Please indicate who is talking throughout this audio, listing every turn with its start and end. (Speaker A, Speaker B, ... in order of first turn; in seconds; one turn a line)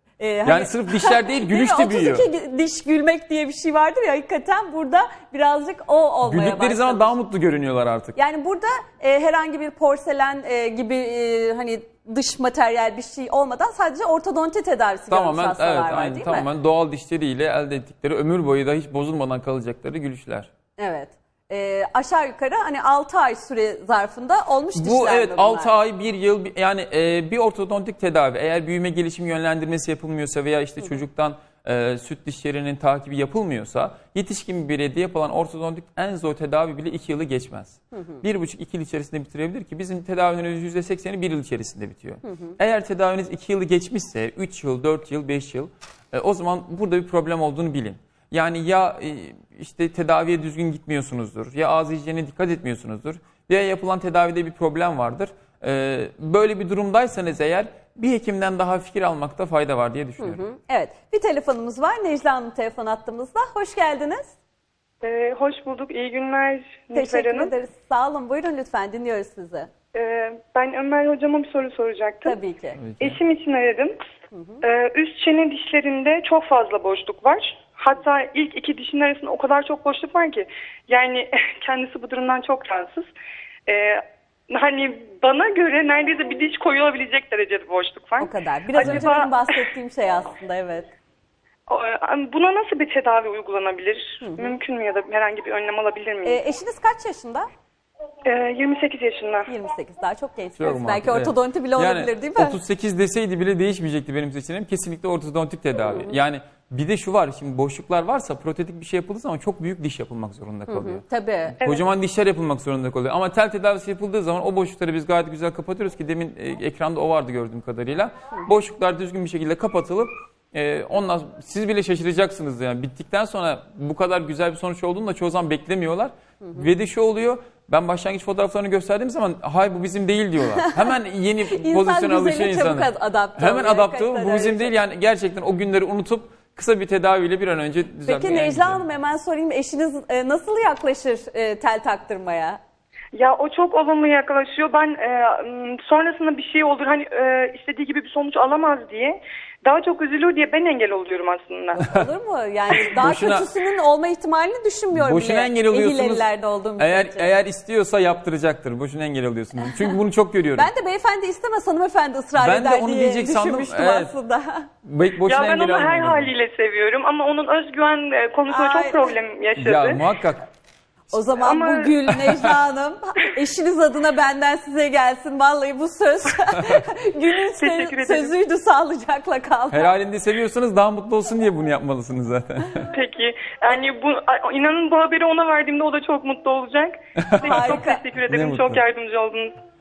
Speaker A: 0.2-7.1
Speaker B: 0.5-2.3
Speaker B: 6.2-8.2
Speaker A: 8.2-16.5
Speaker B: 15.1-20.5
Speaker A: 20.8-25.7
Speaker B: 24.8-60.4
Speaker A: 42.3-42.5
Speaker A: 60.2-64.3
Speaker C: 65.0-67.5
Speaker A: 66.9-69.7
Speaker C: 69.9-72.4
Speaker A: 72.2-72.8
Speaker B: 72.8-73.2
Speaker C: 73.0-74.0
Speaker A: 74.3-74.6
Speaker C: 74.6-83.1
Speaker C: 83.7-89.3
Speaker A: 88.2-90.9
Speaker C: 91.7-96.4
Speaker A: 94.2-94.6
Speaker A: 96.2-97.5
Speaker C: 98.2-99.5
Speaker A: 99.5-102.6
Speaker B: 100.6-111.0
Speaker A: 110.7-111.6
Speaker B: 111.5-138.8
Speaker A: 131.5-134.7
Speaker A: 138.1-142.6
Speaker C: 143.1-151.8
Speaker B: 151.8-152.1
Speaker A: 151.8-157.3
Speaker B: 152.7-153.5
Speaker B: 154.9-156.3
Speaker B: 156.8-160.7
Speaker A: 160.6-164.7
Speaker B: 162.3-164.1
Speaker B: 164.8-166.3
Speaker C: 165.3-170.0
Speaker A: 168.5-169.1
Speaker B: 169.6-170.5
Speaker A: 171.1-179.9
Speaker C: 171.4-172.1
Speaker B: 172.3-172.6
Speaker B: 176.6-176.8
Speaker C: 177.6-178.3
Speaker B: 179.7-182.9
Speaker C: 182.9-189.6
Speaker B: 187.2-188.8
Speaker A: 187.4-188.0